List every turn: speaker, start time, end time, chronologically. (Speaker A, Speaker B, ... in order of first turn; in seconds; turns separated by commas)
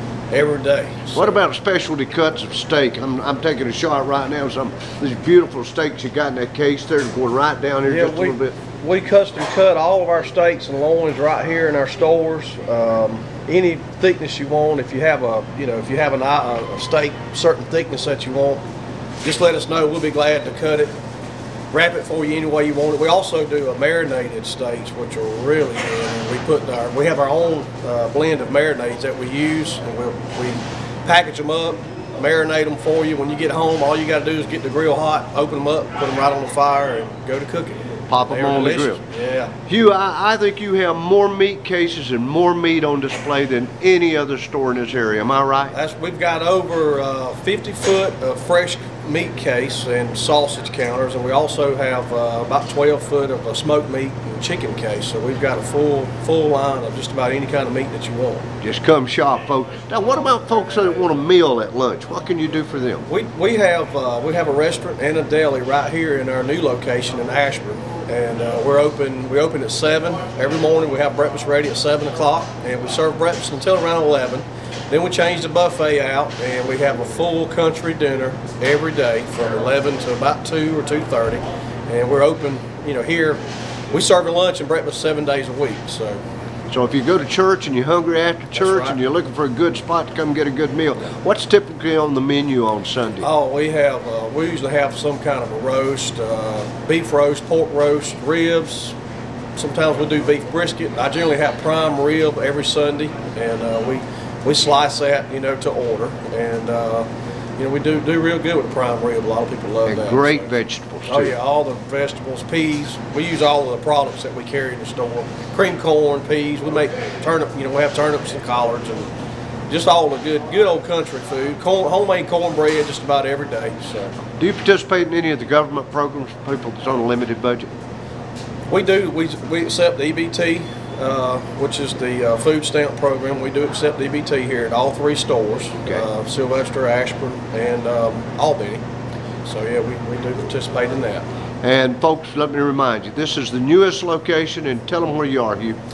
Speaker A: 0.3-1.3, Speaker B: 1.1-8.6, Speaker A: 7.8-18.6, Speaker A: 19.2-20.9, Speaker A: 21.7-39.5, Speaker B: 38.1-39.0, Speaker B: 39.7-45.7, Speaker A: 45.7-58.5, Speaker B: 58.6-63.0, Speaker A: 63.1-83.4, Speaker A: 83.9-86.2, Speaker B: 86.7-93.3, Speaker A: 88.5-89.0, Speaker A: 93.2-99.0, Speaker A: 99.5-110.5, Speaker B: 109.8-111.3, Speaker A: 111.1-119.1, Speaker A: 119.7-124.2, Speaker B: 124.3-127.7, Speaker A: 128.7-138.8, Speaker A: 139.4-141.2, Speaker B: 141.6-145.8